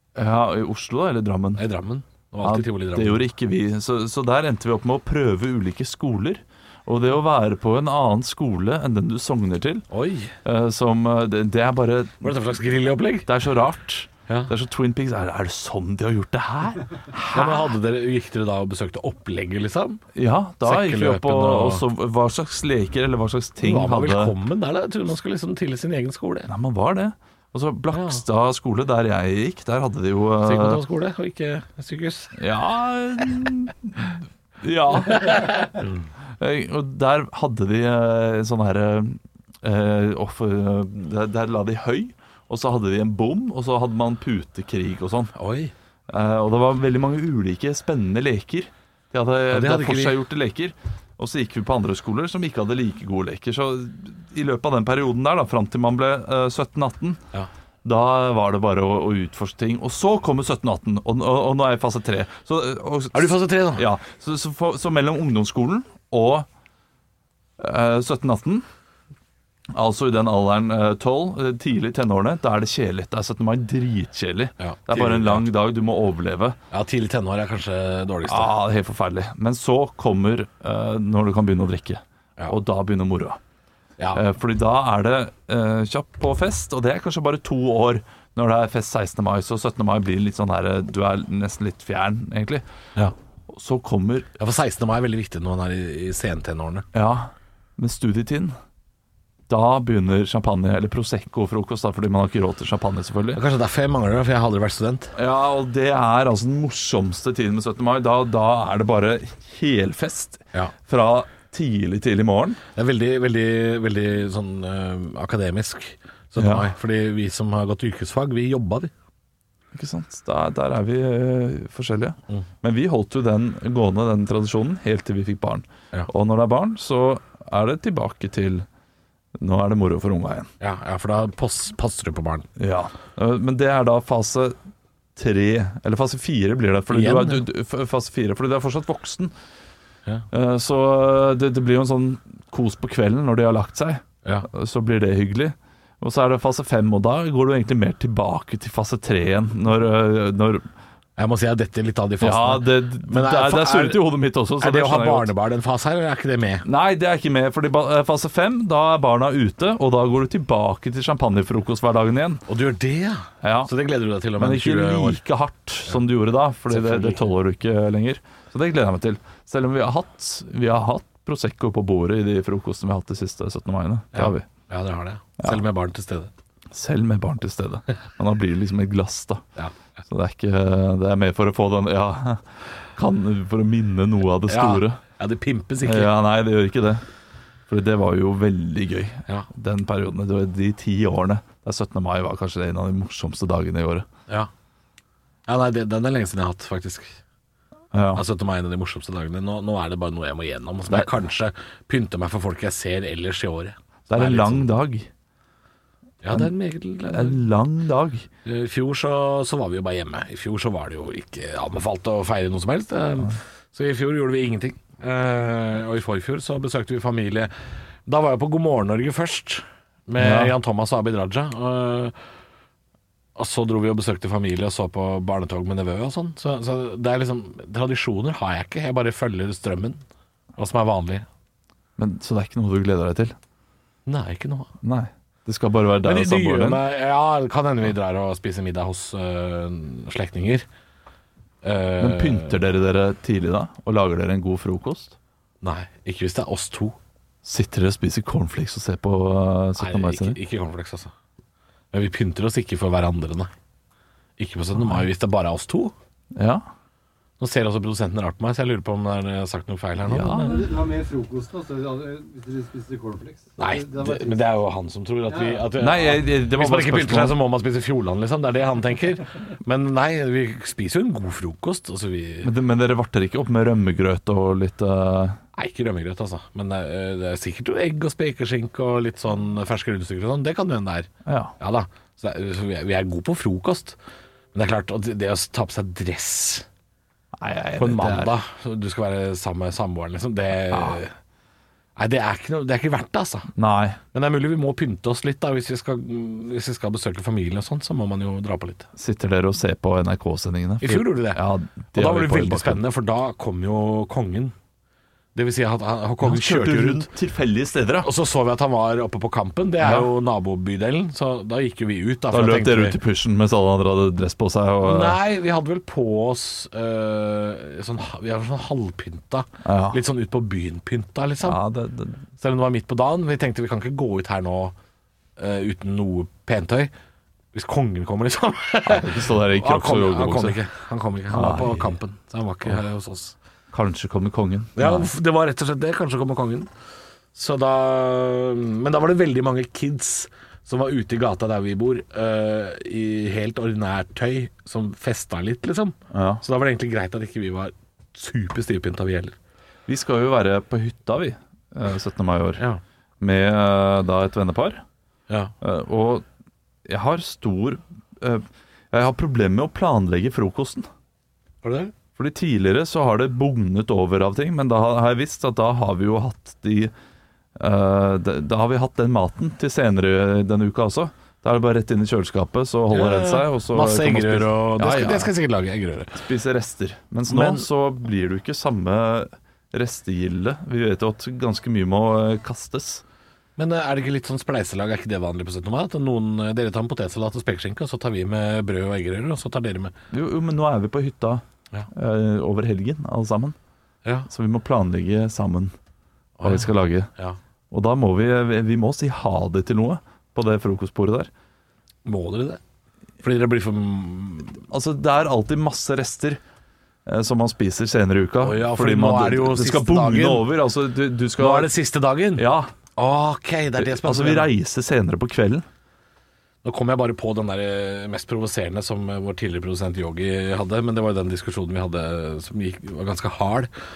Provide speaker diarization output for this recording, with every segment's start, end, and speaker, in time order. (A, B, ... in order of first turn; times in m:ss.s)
0:00.2-0:01.6 A
0:01.6-0:03.2 B
0:02.4-0:09.8 A
0:09.9-0:10.3 B
0:10.4-0:12.3 A
0:12.2-0:13.3 B
0:13.2-0:17.7 A
0:17.3-0:20.0 B
0:20.1-0:24.3 A
0:20.6-0:21.8 B
0:23.6-0:26.5 B
0:26.5-0:30.8 A
0:27.9-0:28.2 B
0:30.4-0:32.4 B
0:32.4-0:35.7 A
0:35.1-0:35.9 B
0:36.4-0:45.3 A
0:45.3-0:45.7 B
0:46.1-0:57.2 A
0:49.5-0:50.2 B
0:57.8-1:06.5 A
1:03.1-1:03.8 B
1:07.6-1:08.6 A
1:09.7-1:16.6 A
1:14.6-1:15.4 B
1:16.7-1:18.5 B
1:18.2-1:23.4 A
1:24.1-1:32.6 A
1:33.5-1:34.3 A
1:34.4-1:36.9 B
1:36.9-1:38.6 A
1:39.5-1:43.4 A
1:43.3-1:45.1 B
1:45.1-1:52.6 A
1:52.7-1:58.9 B
1:56.4-1:56.7 A
1:59.7-2:08.6 A
2:09.4-2:10.5 A
2:10.6-2:12.5 B
2:12.6-2:14.6 A
2:15.2-2:19.3 A
2:16.9-2:17.4 B
2:20.3-2:30.6 A
2:31.2-2:34.0 B
2:32.2-2:35.3 A
2:34.6-2:36.6 B
2:36.6-2:42.4 A
2:42.5-2:45.2 B
2:43.4-2:43.7 A
2:44.4-2:54.5 A
2:46.7-2:47.2 B
2:54.1-2:56.3 B
2:56.7-2:59.4 A
3:00.0-3:05.0 A
3:04.5-3:06.1 B
3:05.8-3:07.0 A
3:07.7-3:14.1 A
3:15.4-3:17.2 B
3:17.9-3:18.2 A
3:18.1-3:24.7 B
3:24.1-3:25.1 A
3:26.2-3:27.4 B
3:27.1-3:28.3 A
3:28.4-3:37.5 B
3:38.0-3:42.1 B
3:40.2-3:40.5 A
3:43.4-3:50.0 B
3:50.6-3:51.2 B
3:52.0-3:53.4 A
3:54.0-3:54.7 B
3:54.8-3:56.8 A
3:56.0-4:00.6 B
4:01.6-4:02.6 B
4:02.0-4:05.2 A
4:05.6-4:07.0 B
4:07.4-4:10.4 A
4:09.8-4:11.1 B
4:11.9-4:13.5 B
4:14.4-4:15.9 B
4:14.7-4:15.0 A
4:16.3-4:16.6 A
4:17.4-4:20.7 B
4:20.0-4:20.7 A
4:20.4-4:24.5 C
4:23.6-4:32.5 B
4:25.3-4:25.7 C
4:25.8-4:27.4 A
4:32.4-4:35.4 A
4:35.5-4:44.0 B
4:41.2-4:41.5 A
4:44.5-4:46.7 B
4:47.4-4:48.3 A
4:47.8-4:51.1 B
4:50.7-4:51.0 A
4:52.0-4:53.5 B
4:53.6-4:54.0 A
4:54.1-4:58.9 B
4:59.0-5:02.8 A
5:00.8-5:01.4 B
5:01.9-5:04.5 B
5:05.3-5:07.1 B
5:06.2-5:08.1 A
5:08.0-5:13.0 B
5:09.8-5:10.1 A
5:12.3-5:15.2 A
5:14.8-5:21.6 B
5:19.6-5:20.0 A
5:21.4-5:22.2 A
5:22.4-5:24.7 B
5:25.4-5:26.9 B
5:27.5-5:33.4 B
5:28.8-5:30.6 A
5:31.3-5:31.9 A
5:33.7-5:35.1 A
5:34.8-5:36.7 B
5:37.3-5:49.4 B
5:46.1-5:46.4 A
5:49.9-5:52.6 A
5:53.2-5:54.8 A
5:55.6-5:56.2 A
5:56.8-6:00.9 A
6:01.6-6:01.9 B
6:02.2-6:06.9 A
6:07.6-6:15.3 A
6:12.9-6:16.2 B
6:16.1-6:23.0 A
6:17.3-6:17.6 B
6:23.6-6:29.9 B
6:30.1-6:33.6 A
6:34.3-6:35.7 A
6:36.4-6:37.4 B
6:36.4-6:37.1 A
6:37.7-6:41.3 A
6:42.0-6:42.6 B
6:43.2-6:44.6 B
6:44.7-6:46.4 A
6:47.0-6:51.7 A
6:48.4-6:50.5 B
6:51.4-6:54.5 B
6:52.4-6:52.7 A
6:53.8-6:55.6 A
6:56.6-7:03.7 B